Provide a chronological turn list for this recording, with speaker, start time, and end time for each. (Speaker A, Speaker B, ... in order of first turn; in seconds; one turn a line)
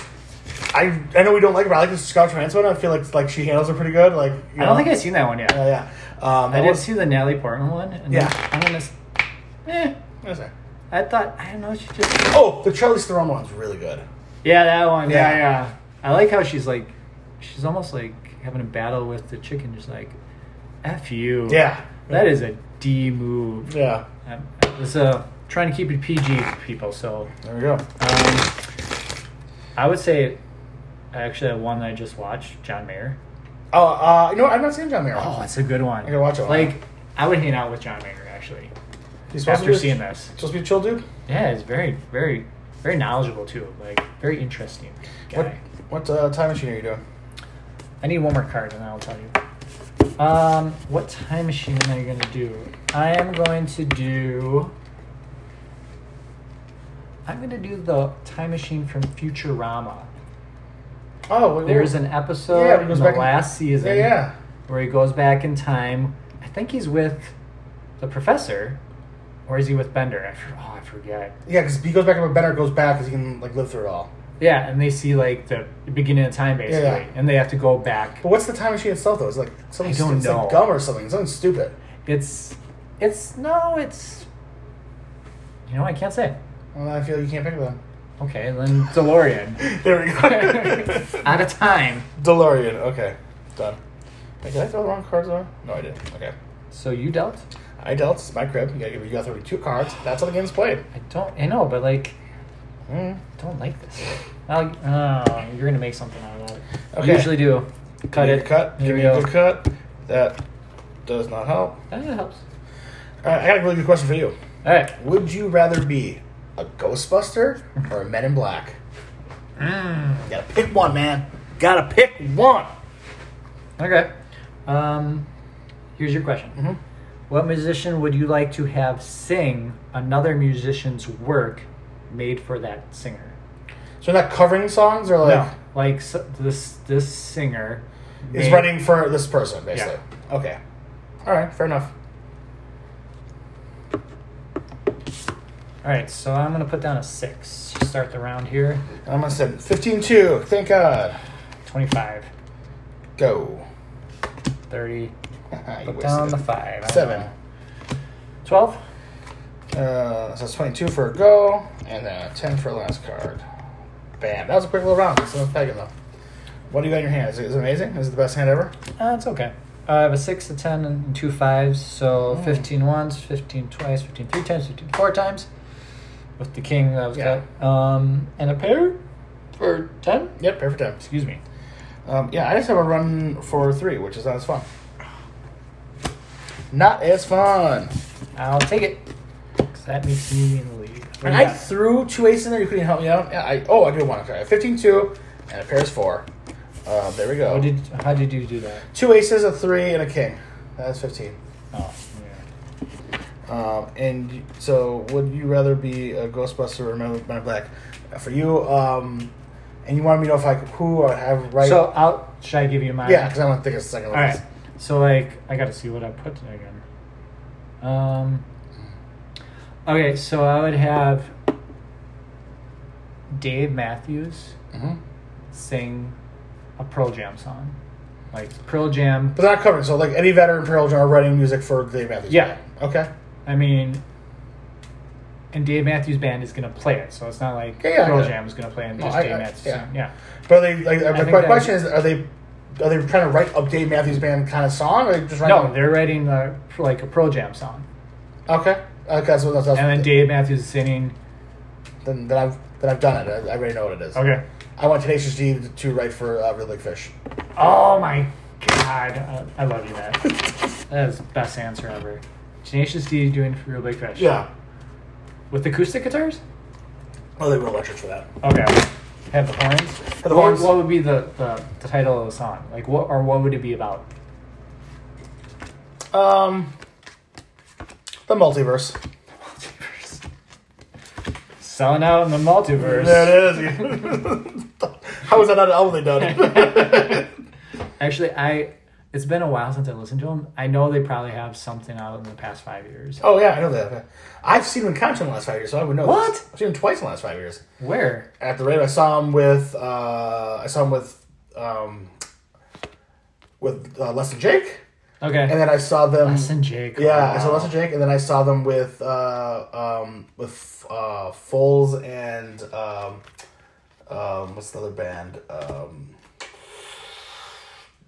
Speaker A: 0.7-6.9
Speaker B: 4.6-5.6
Speaker B: 6.5-9.0
Speaker A: 8.1-8.3
Speaker B: 9.7-9.9
Speaker A: 10.2-10.5
Speaker B: 10.9-12.4
Speaker A: 12.3-14.1
Speaker B: 14.4-20.2
Speaker A: 15.1-15.5
Speaker B: 20.8-23.7
Speaker A: 21.5-22.3
Speaker A: 23.7-24.1
Speaker B: 24.3-27.3
Speaker A: 27.4-27.9
Speaker B: 28.0-28.5
Speaker B: 29.8-30.4
Speaker B: 31.1-33.2
Speaker A: 33.7-35.3
Speaker B: 35.2-38.7
Speaker A: 36.0-36.8
Speaker A: 39.3-41.0
Speaker B: 39.5-40.4
Speaker B: 41.3-45.6
Speaker A: 45.3-47.0
Speaker B: 48.0-49.3
Speaker B: 50.2-54.7
Speaker B: 57.3-60.1
Speaker A: 61.3-64.3
Speaker B: 61.6-67.3
Speaker B: 68.0-68.8
Speaker B: 69.5-71.4
Speaker A: 71.5-74.1
Speaker B: 74.4-78.2
Speaker A: 76.7-77.0
Speaker A: 78.2-81.8
Speaker B: 79.8-80.7
Speaker B: 82.1-84.3
Speaker B: 85.7-86.4
Speaker A: 86.8-87.8
Speaker B: 88.2-92.1
Speaker A: 89.6-91.2
Speaker A: 92.2-93.8
Speaker A: 94.4-96.3
Speaker B: 96.7-97.5
Speaker A: 97.8-100.8
Speaker B: 100.9-102.2
Speaker A: 102.9-103.2
Speaker B: 103.4-109.3
Speaker A: 106.9-107.5
Speaker A: 108.1-110.4
Speaker A: 111.1-111.8
Speaker B: 111.9-112.4
Speaker A: 113.2-114.3
Speaker B: 114.6-115.0
Speaker A: 115.0-118.8
Speaker B: 119.6-120.3
Speaker A: 120.3-122.7
Speaker B: 123.8-124.1
Speaker B: 124.7-125.3
Speaker B: 126.0-126.6
Speaker B: 127.3-133.4
Speaker A: 134.0-135.5
Speaker B: 135.2-138.8
Speaker A: 138.3-140.6
Speaker A: 141.2-141.9
Speaker B: 145.8-148.9
Speaker A: 149.1-151.2
Speaker B: 151.7-152.3
Speaker A: 153.2-153.7
Speaker B: 154.7-155.1
Speaker A: 155.5-157.3
Speaker B: 155.9-157.3
Speaker B: 158.4-158.8
Speaker A: 159.7-163.4
Speaker A: 164.2-165.9
Speaker A: 166.7-168.7
Speaker B: 169.0-175.5
Speaker A: 172.3-172.6
Speaker B: 176.4-179.0
Speaker A: 177.1-177.4
Speaker B: 179.6-180.4
Speaker A: 180.4-181.4
Speaker A: 182.1-184.7
Speaker A: 186.7-187.9
Speaker B: 188.4-189.1
Speaker B: 189.8-191.7
Speaker A: 191.2-196.3
Speaker A: 196.9-197.7
Speaker B: 197.5-198.8
Speaker A: 198.9-201.4
Speaker B: 201.7-202.4
Speaker A: 203.5-209.3
Speaker A: 209.8-211.9
Speaker B: 211.6-213.3
Speaker A: 213.0-214.4
Speaker B: 214.1-216.8
Speaker B: 217.8-218.4
Speaker B: 219.9-221.3
Speaker B: 223.3-224.5
Speaker A: 224.7-225.0
Speaker B: 225.5-226.2
Speaker B: 226.8-227.8
Speaker B: 228.3-229.4
Speaker A: 229.3-233.1
Speaker B: 232.3-232.6
Speaker B: 233.5-234.0
Speaker B: 235.5-240.1
Speaker A: 237.8-238.4
Speaker A: 239.0-239.8
Speaker A: 240.5-245.9
Speaker B: 241.1-241.8
Speaker B: 245.4-247.9
Speaker A: 248.5-250.3
Speaker B: 249.7-251.2
Speaker A: 252.0-257.1
Speaker B: 254.2-254.4
Speaker B: 257.6-264.4
Speaker A: 264.2-264.5
Speaker B: 265.5-266.4
Speaker A: 267.4-268.3
Speaker B: 268.4-274.1
Speaker A: 270.2-270.8
Speaker A: 276.1-276.7
Speaker A: 278.3-279.0
Speaker B: 279.5-280.2
Speaker B: 281.6-283.6
Speaker A: 282.8-287.3
Speaker B: 286.5-287.0
Speaker B: 288.0-293.2
Speaker A: 293.2-297.6
Speaker B: 296.0-296.4
Speaker B: 297.8-298.3
Speaker A: 298.4-302.1
Speaker A: 303.6-304.8
Speaker B: 305.2-305.6
Speaker A: 305.5-313.2
Speaker B: 306.2-307.8
Speaker A: 314.1-316.1